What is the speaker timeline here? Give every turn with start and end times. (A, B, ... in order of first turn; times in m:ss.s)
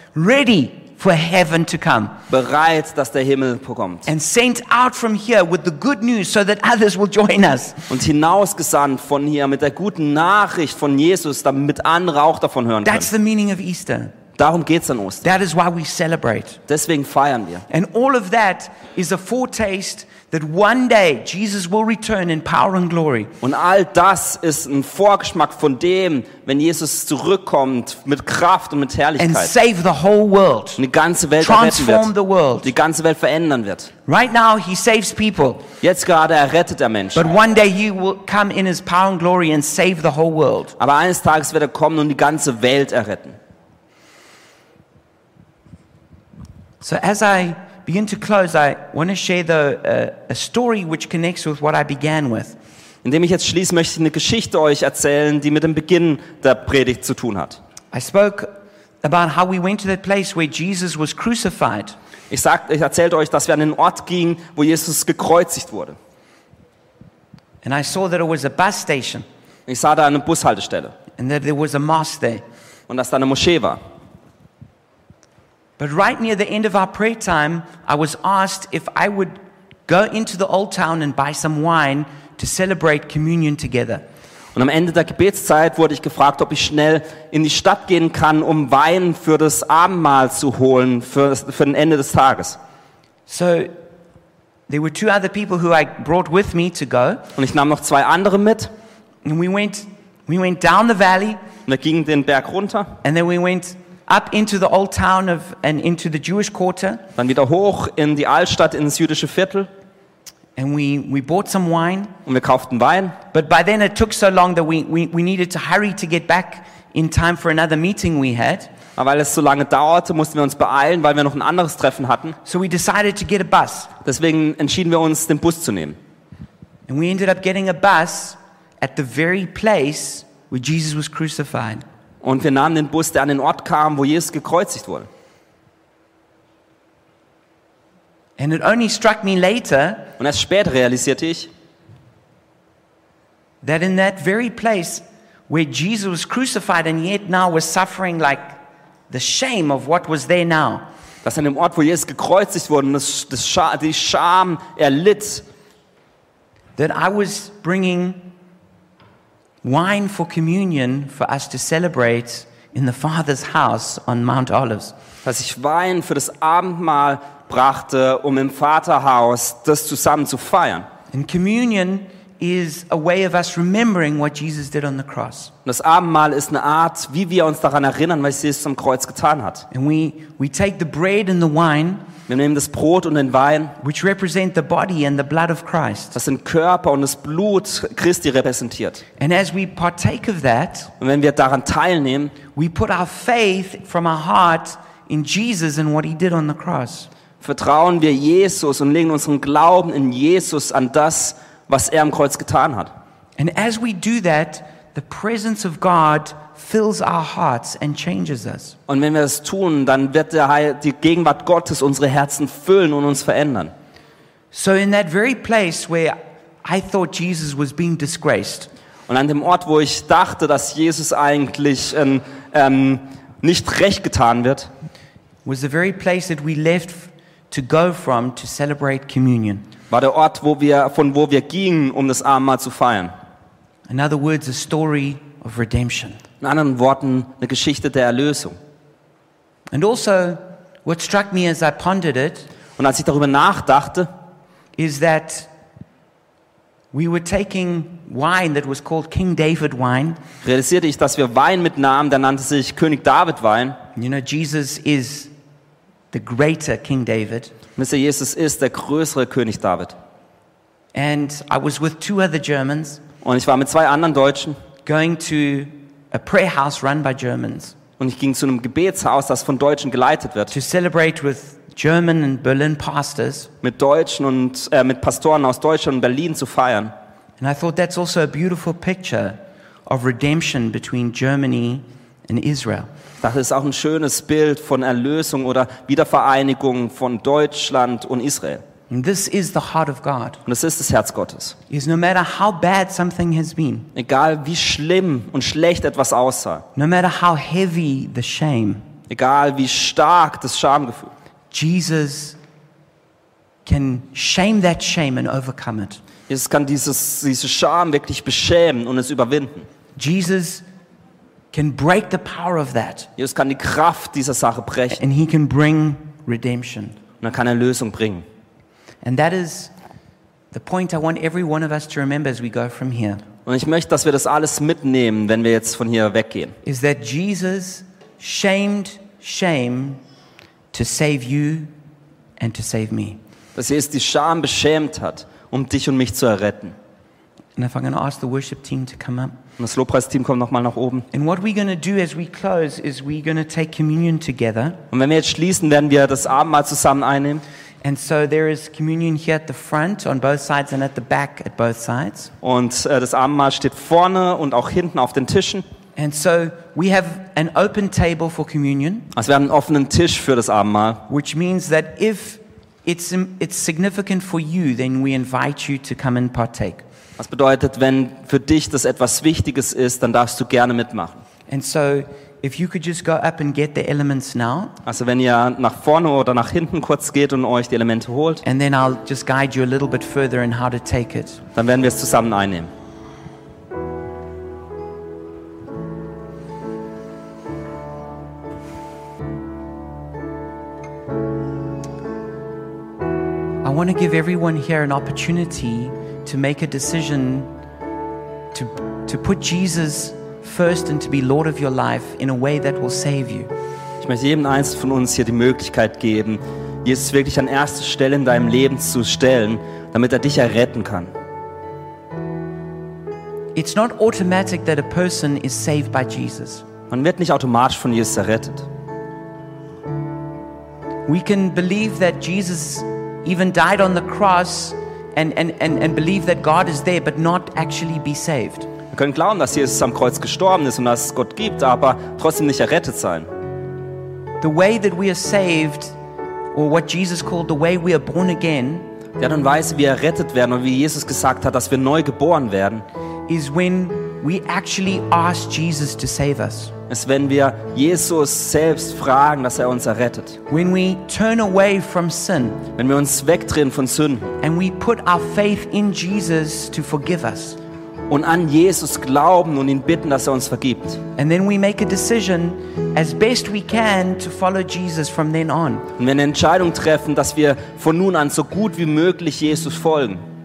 0:00.2-0:02.2 A
0:02.3-0:04.1 B
0:04.1-0:07.9 A
0:07.9-0:13.1 B
0:12.8-0:14.1 A
0:14.4-0:15.2 B
0:15.2-0:16.6 A
0:16.7-0:17.6 B
0:17.7-0:23.3 A
0:23.4-0:29.5 B
0:29.2-0:30.8 A
0:30.8-0:32.1 B
0:31.4-0:32.7 A
0:32.6-0:33.9 B
0:34.1-0:35.7 A
0:35.8-0:37.3 B
0:37.2-0:40.8 A
0:40.8-0:43.4 B
0:46.8-0:52.6 A
0:53.0-0:57.6 B
0:57.9-1:02.0 A
1:02.3-1:06.0 B
1:07.6-1:09.2 A
1:09.7-1:10.9 B
1:11.2-1:12.4 A
1:12.9-1:13.8 B
1:15.8-1:19.4 A
1:19.9-1:24.0 A
1:24.6-1:32.6 B
1:33.3-1:33.7 A
1:34.7-1:37.3 A
1:37.4-1:38.7 B
1:39.2-1:41.4 A
1:41.7-1:42.9 B
1:43.0-1:47.0 A
1:47.2-1:49.7 B
1:50.6-1:52.1 A
1:52.3-1:53.2 B
1:53.3-1:58.7 A
1:59.0-2:02.4 B
2:02.4-2:03.9 A
2:04.0-2:06.0 B
2:06.9-2:11.8 A
2:12.2-2:15.1 B
2:18.4-2:20.1 A
2:20.2-2:21.5 B
2:23.6-2:28.6 A
2:29.1-2:30.9 A
2:31.2-2:35.4 B
2:36.8-2:38.3 A
2:39.6-2:44.9 A
2:45.2-2:50.9 B
2:51.1-2:55.5 A
2:55.7-2:59.7 B
2:59.7-3:02.1 A
3:02.3-3:03.8 B
3:03.8-3:06.2 A
3:06.1-3:09.0 B
3:09.2-3:10.9 A
3:11.0-3:12.4 B
3:12.6-3:17.1 A
3:17.4-3:22.9 B
3:23.4-3:28.8 A
3:28.9-3:33.7 B
3:34.5-3:38.7 A
3:39.1-3:44.7 B
3:45.4-3:49.7 A
3:49.9-3:53.1 B
3:53.9-3:56.2 A
3:56.4-3:58.6 B
3:59.7-4:02.5 A
4:02.8-4:04.1 B
4:04.8-4:05.5 A
4:06.9-4:10.2 A
4:10.4-4:13.8 B
4:14.0-4:15.3 A
4:16.1-4:17.5 A
4:17.8-4:20.0 B
4:20.9-4:23.0 A
4:23.2-4:24.6 B
4:24.8-4:27.8 A
4:28.0-4:30.5 B
4:30.5-4:33.5 A
4:33.6-4:36.9 B
4:37.4-4:42.9 A
4:43.2-4:48.6 B
4:48.9-4:50.4 A
4:50.5-4:51.6 B
4:51.7-4:53.9 A
4:54.0-4:56.6 B
4:56.8-4:58.8 A
4:59.1-5:01.1 B
5:01.5-5:02.4 A
5:03.6-5:06.0 A
5:06.3-5:09.7 B
5:10.0-5:10.6 A
5:11.5-5:13.1 A
5:13.2-5:15.0 B
5:14.9-5:17.0 A
5:17.2-5:18.2 B
5:19.0-5:19.7 A
5:20.5-5:23.2 A
5:23.4-5:26.6 B
5:26.6-5:30.0 A
5:30.7-5:31.7 A
5:32.4-5:33.2 A
5:33.6-5:36.8 B
5:37.6-5:39.4 A
5:39.6-5:41.1 B
5:41.1-5:44.8 A
5:44.9-5:47.4 B
5:47.8-5:52.3 A
5:52.4-5:55.6 B
5:56.0-5:59.1 A
5:59.1-6:01.0 B
6:01.1-6:06.8 A
6:07.2-6:11.2 B
6:11.5-6:14.8 A
6:14.9-6:18.4 B
6:18.4-6:21.4 A
6:21.6-6:22.7 B
6:33.6-6:37.5 A
6:38.5-6:43.5 A
6:44.0-6:51.1 B
6:53.6-6:56.6 A
6:56.9-6:58.7 B
7:01.1-7:08.7 A
7:08.9-7:13.3 B
7:14.4-7:16.0 A
7:16.5-7:18.9 A
7:19.2-7:22.8 B
7:23.3-7:26.7 A
7:26.9-7:30.4 B
7:30.5-7:32.6 A
7:32.8-7:34.4 B
7:34.4-7:37.6 A
7:38.1-7:41.0 B
7:41.2-7:45.9 A
7:46.0-7:50.2 B